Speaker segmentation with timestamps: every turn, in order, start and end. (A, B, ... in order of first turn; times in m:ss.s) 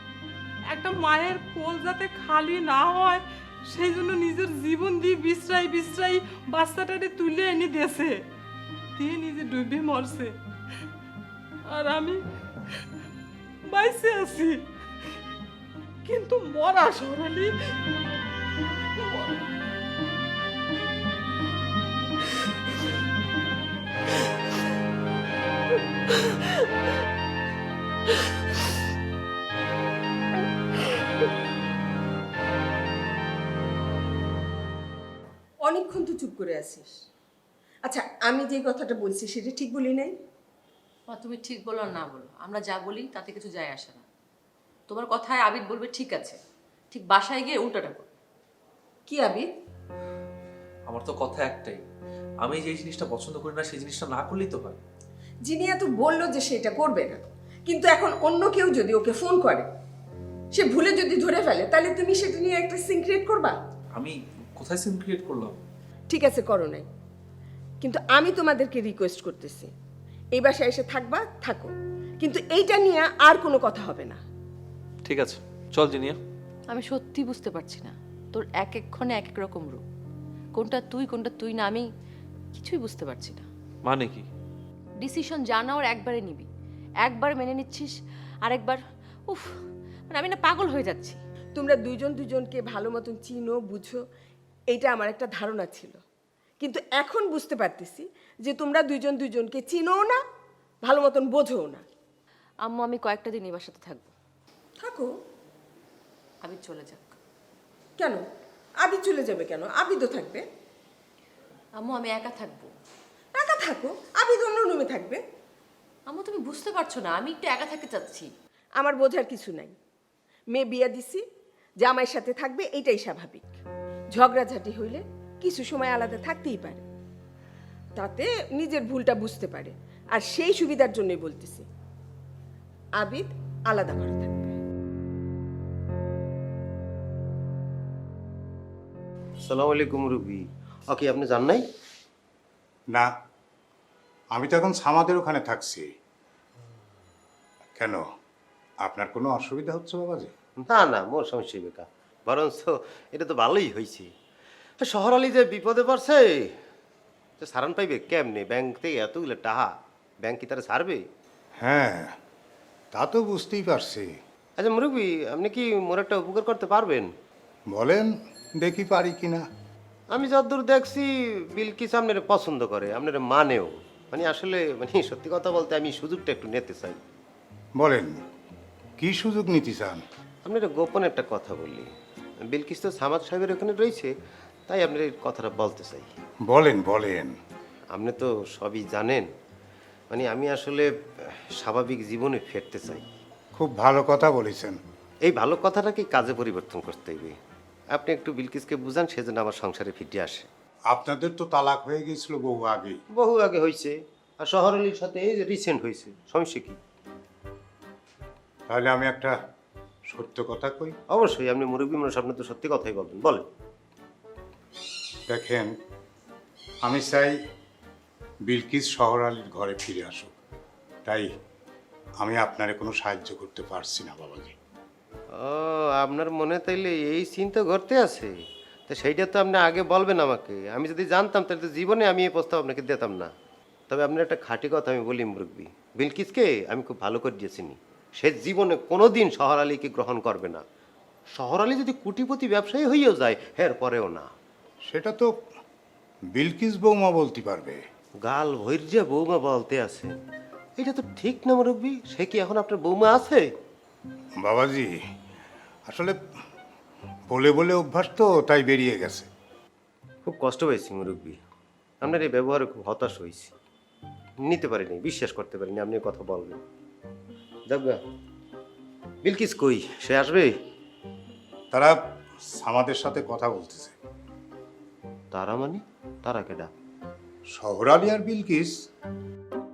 0:00.7-0:08.2 A
0:09.0-0:10.3 A
0:11.7-0:12.2 A
0:13.7-0:14.6 A
0:16.0-0:17.7 A
0:19.0-0:19.4 A
0:26.1-0:26.6 A
0:35.6-0:36.9 B
0:37.8-0:40.1 B
0:41.1-0:44.0 C
0:44.9-0:46.4 C
0:46.9-0:48.1 C
0:49.1-0:49.5 B
0:50.9-0:51.8 D
0:52.4-0:54.8 D
0:55.4-0:59.7 B
1:00.5-1:03.6 B
1:03.9-1:05.6 D
1:06.1-1:06.8 B
1:07.8-1:09.7 B
1:10.3-1:14.2 B
1:15.0-1:16.2 D
1:16.7-1:19.8 C
1:20.6-1:21.9 C
1:22.5-1:23.4 C
1:23.8-1:24.3 D
1:25.0-1:26.5 C
1:27.0-1:27.9 C
1:28.4-1:29.5 C
1:30.1-1:31.2 C
1:31.5-1:34.0 B
1:34.7-1:36.0 B
1:36.6-1:40.2 B
1:40.8-1:41.8 B
1:42.6-1:44.1 C
1:44.8-1:45.1 B
1:46.4-1:47.2 C
1:48.8-1:50.4 B
1:51.8-1:52.7 C
1:53.3-1:55.2 B
1:56.1-1:58.3 C
1:58.8-1:59.7 B
2:00.5-2:01.2 B
2:01.8-2:03.5 B
2:04.1-2:06.8 B
2:08.0-2:11.6 B
2:13.0-2:14.6 B
2:19.4-2:21.6 E
2:24.3-2:25.9 F
2:27.8-2:28.0 F
2:28.8-2:30.3 F
2:30.6-2:34.1 E
2:34.8-2:36.6 E
2:37.4-2:41.0 E
2:41.6-2:42.2 F
2:42.9-2:44.1 F
2:44.6-2:47.1 E
2:47.7-2:49.4 F
2:50.1-2:57.0 E
2:57.8-2:58.2 F
2:59.0-3:00.0 F
3:00.4-3:01.9 E
3:02.5-3:04.1 E
3:04.7-3:06.1 E
3:06.4-3:07.3 F
3:07.9-3:09.3 E
3:10.1-3:13.0 E
3:13.6-3:14.8 F
3:15.2-3:17.4 E
3:17.9-3:20.5 E
3:20.9-3:23.0 F
3:23.1-3:26.8 E
3:28.7-3:29.3 F
3:30.1-3:31.0 F
3:31.1-3:33.4 E
3:35.3-3:35.7 F
3:36.8-3:37.4 F
3:38.5-3:40.4 F
3:41.0-3:41.3 F
3:42.2-3:44.6 F
3:45.3-3:48.4 E
3:48.9-3:53.3 E
3:53.9-4:00.6 E
4:01.4-4:04.3 E
4:04.9-4:05.3 F
4:06.3-4:07.8 F
4:08.2-4:10.1 E
4:10.8-4:13.5 E
4:14.4-4:14.9 F
4:15.9-4:16.2 F
4:17.3-4:19.3 F
4:20.2-4:21.4 E
4:22.0-4:23.5 E
4:24.4-4:26.6 E
4:27.7-4:28.0 E
4:29.2-4:30.6 E
4:31.7-4:34.0 F
4:35.3-4:36.7 E
4:37.5-4:38.7 F